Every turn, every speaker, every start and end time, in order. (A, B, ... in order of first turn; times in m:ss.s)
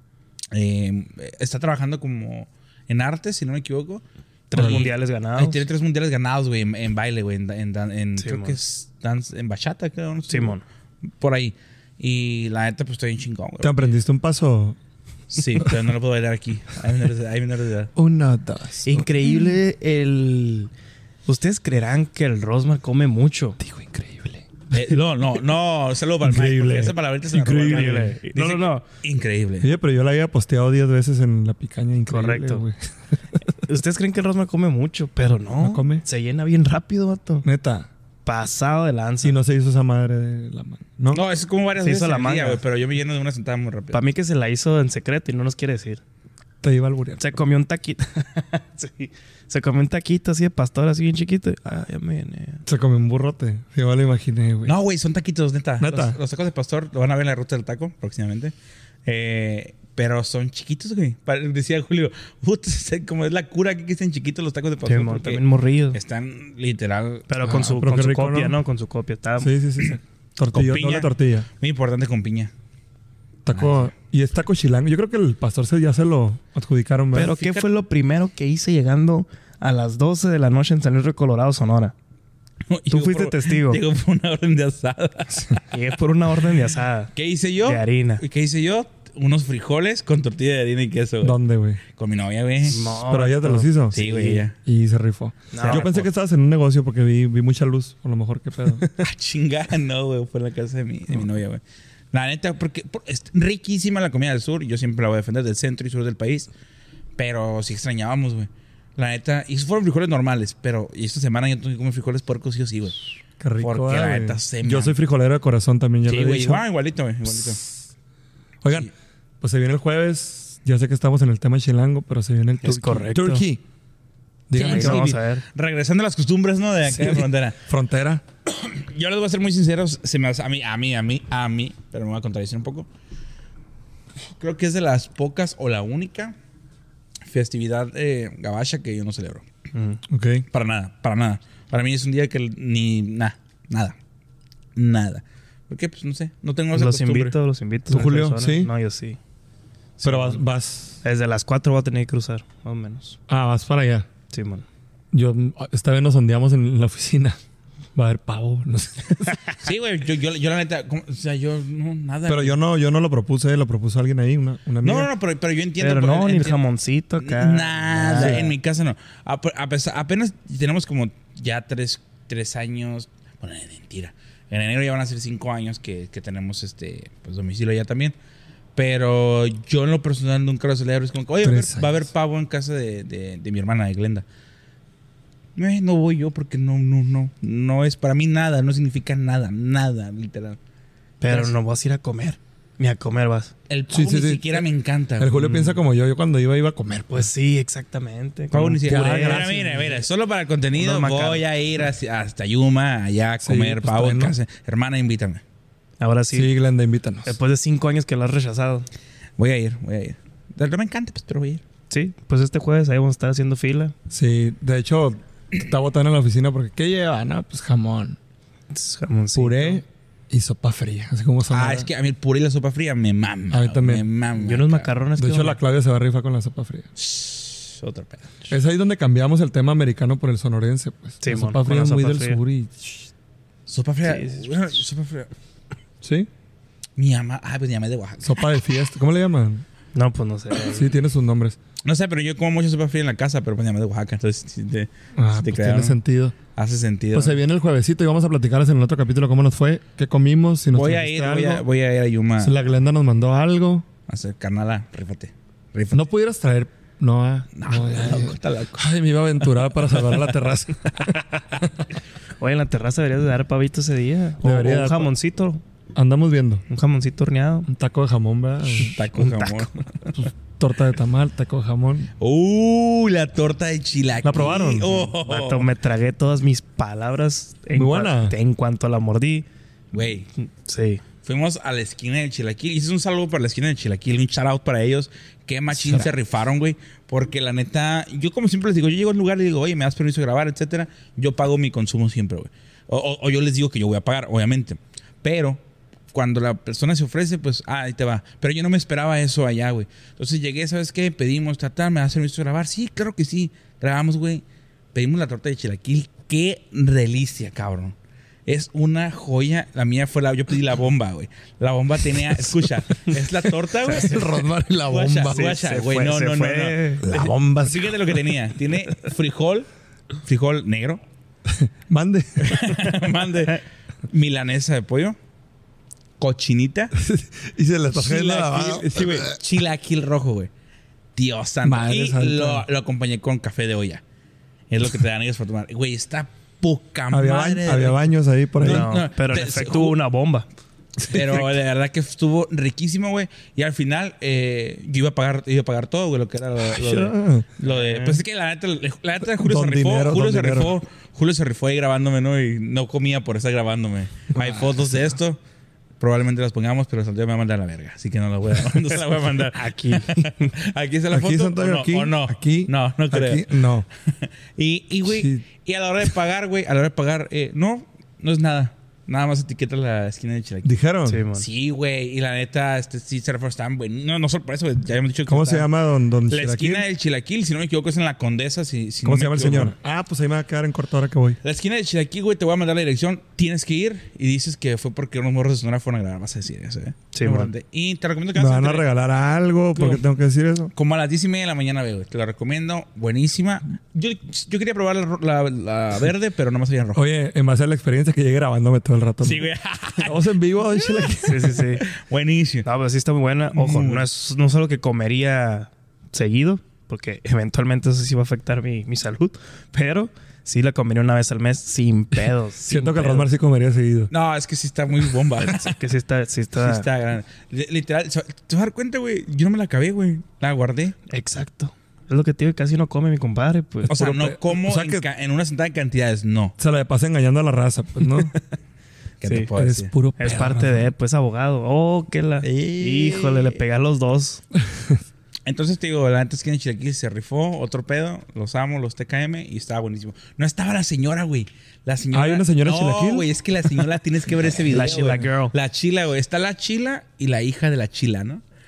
0:00.5-0:10.6 A
0:04.5-0:05.6 B
0:04.6-0:04.8 C
0:08.2-0:08.6 B
0:10.3-0:10.6 B
0:11.2-0:13.9 A
0:13.6-0:14.8 C
0:15.3-0:17.9 A
0:18.0-0:19.6 C
0:18.8-0:20.7 B
0:21.2-0:23.6 B
0:23.6-0:24.5 C
0:24.7-0:29.7 A
0:26.2-0:28.2 C
0:27.6-0:28.8 B
0:29.6-0:32.7 C
0:32.1-0:32.7 B
0:33.6-0:37.4 B
0:35.6-0:36.0 C
0:37.4-0:37.9 C
0:38.2-0:39.4 B
0:39.2-0:41.2 C
0:41.1-0:44.0 A
0:41.8-0:42.6 B
0:43.9-0:46.0 B
0:46.6-0:47.2 C
0:47.2-0:52.6 B
0:52.6-0:54.7 C
0:54.6-0:58.5 A
0:55.8-0:56.2 C
0:59.0-1:07.3 A
1:04.8-1:06.0 B
1:07.3-1:09.5 B
1:07.4-1:08.6 C
1:09.4-1:11.5 C
1:10.5-1:12.5 A
1:13.4-1:17.3 C
1:13.5-1:13.9 A
1:17.1-1:21.9 B
1:17.1-1:17.7 A
1:22.7-1:25.6 A
1:22.9-1:23.8 B
1:25.6-1:27.1 B
1:27.1-1:31.4 A
1:27.6-1:28.2 B
1:31.2-1:31.8 C
1:31.9-1:32.9 A
1:32.6-1:34.4 B
1:33.1-1:34.0 C
1:33.9-1:34.6 A
1:34.6-1:38.9 C
1:35.5-1:35.9 B
1:35.6-1:36.0 A
1:38.9-1:41.6 A
1:42.1-1:46.5 A
1:47.2-1:53.0 A
1:53.4-1:56.6 C
1:53.6-1:55.0 A
1:56.0-1:57.6 A
1:58.6-1:58.9 C
1:59.4-2:03.6 C
2:02.6-2:03.4 B
2:04.5-2:05.1 C
2:04.5-2:07.6 A
2:04.6-2:05.4 B
2:06.8-2:08.2 C
2:08.5-2:12.9 A
2:14.2-2:16.3 A
2:17.3-2:19.4 A
2:19.7-2:20.0 B
2:20.1-2:20.4 C
2:20.5-2:24.0 A
2:24.8-2:27.4 A
2:26.7-2:29.2 B
2:27.9-2:28.7 C
2:30.0-2:30.4 B
2:30.0-2:31.0 C
2:31.0-2:33.2 B
2:33.3-2:34.1 C
2:34.3-2:34.6 B
2:35.1-2:37.4 C
2:37.9-2:39.6 C
2:39.6-2:42.6 A
2:42.3-2:45.1 C
2:44.8-2:46.6 A
2:45.8-2:48.5 B
2:47.2-2:58.1 A
2:48.2-2:48.5 C
2:58.8-3:04.2 A
3:01.4-3:02.0 C
3:05.6-3:10.6 A
3:11.2-3:13.5 B
3:11.3-3:11.5 A
3:13.7-3:15.3 A
3:13.9-3:14.7 C
3:15.2-3:17.3 C
3:15.4-3:15.8 B
3:17.1-3:20.0 B
3:18.5-3:25.4 A
3:18.5-3:19.9 C
3:20.8-3:21.4 B
3:23.4-3:24.4 C
3:26.0-3:26.5 B
3:26.3-3:27.4 C
3:27.2-3:28.9 B
3:29.4-3:31.6 A
3:31.9-3:33.9 B
3:34.1-3:38.2 C
3:38.7-3:39.8 B
3:39.3-3:41.9 C
3:41.5-3:44.9 A
3:43.5-3:44.0 C
3:44.4-3:45.6 B
3:45.2-3:46.9 C
3:47.0-3:48.5 A
3:48.5-3:53.1 C
3:51.2-3:52.4 B
3:53.7-3:55.3 A
3:54.0-3:54.5 B
3:56.0-3:56.3 C
3:57.0-3:58.4 A
3:58.2-3:59.6 C
3:59.9-4:00.9 B
4:00.7-4:01.6 C
4:01.8-4:06.0 A
4:05.2-4:06.4 C
4:06.6-4:07.4 A
4:07.1-4:11.6 C
4:10.7-4:12.5 A
4:12.4-4:13.8 C
4:14.1-4:16.0 A
4:15.9-4:21.2 C
4:17.5-4:18.9 A
4:22.4-4:25.6 B
4:24.4-4:25.1 C
4:25.9-4:26.6 C
4:26.7-4:27.7 B
4:27.7-4:29.0 C
4:28.8-4:30.2 A
4:29.1-4:29.8 B
4:30.2-4:32.1 C
4:32.2-4:35.7 A
4:34.2-4:34.9 C
4:34.8-4:39.4 B
4:37.8-4:38.3 C
4:39.9-4:40.3 A
4:40.3-4:41.0 B
4:41.2-4:55.6 A
4:45.7-4:46.1 C
4:56.1-5:08.0 A
5:08.5-5:19.7 A
5:12.6-5:13.1 C
5:13.8-5:15.6 C
5:15.3-5:17.0 B
5:17.0-5:18.1 C
5:20.2-5:21.0 A
5:21.5-5:22.9 C
5:22.4-5:25.2 A
5:26.2-5:26.9 A
5:26.9-5:29.4 C
5:27.9-5:30.5 A
5:31.2-5:34.0 A
5:31.6-5:32.6 C
5:34.7-5:40.0 A
5:37.1-5:38.9 C
5:38.6-5:40.4 B
5:41.0-5:41.4 C
5:41.1-5:55.4 A
5:46.6-5:47.5 C
5:47.6-5:48.2 B
5:49.2-5:50.8 C
5:54.3-5:55.1 C
5:56.0-6:10.7 A
5:59.5-6:00.5 B
6:01.1-6:03.9 C
6:05.0-6:05.4 C
6:10.6-6:11.2 C
6:11.0-6:11.4 B
6:11.3-6:15.7 A
6:15.3-6:16.8 C
6:16.3-6:19.7 A
6:19.0-6:21.4 C
6:21.4-6:28.9 A
6:27.1-6:27.5 B
6:28.3-6:30.7 C
6:29.8-6:30.0 A
6:30.7-6:37.0 A
6:36.9-6:41.7 C
6:39.2-6:42.6 A
6:41.2-6:41.9 B
6:42.6-6:53.3 B
6:43.5-6:44.1 A
6:52.7-6:54.1 C
6:54.1-6:55.8 A
6:55.4-6:56.8 B
6:56.6-7:00.9 A
7:01.1-7:04.1 B
7:03.9-7:06.5 A
7:03.9-7:05.0 C
7:06.6-7:08.3 C
7:09.2-7:09.9 A
7:09.2-7:09.5 B
7:09.5-7:10.9 C
7:10.2-7:14.4 B
7:12.4-7:13.6 C
7:14.5-7:15.0 C
7:15.4-7:28.4 A
7:22.1-7:23.8 C
7:24.7-7:25.5 B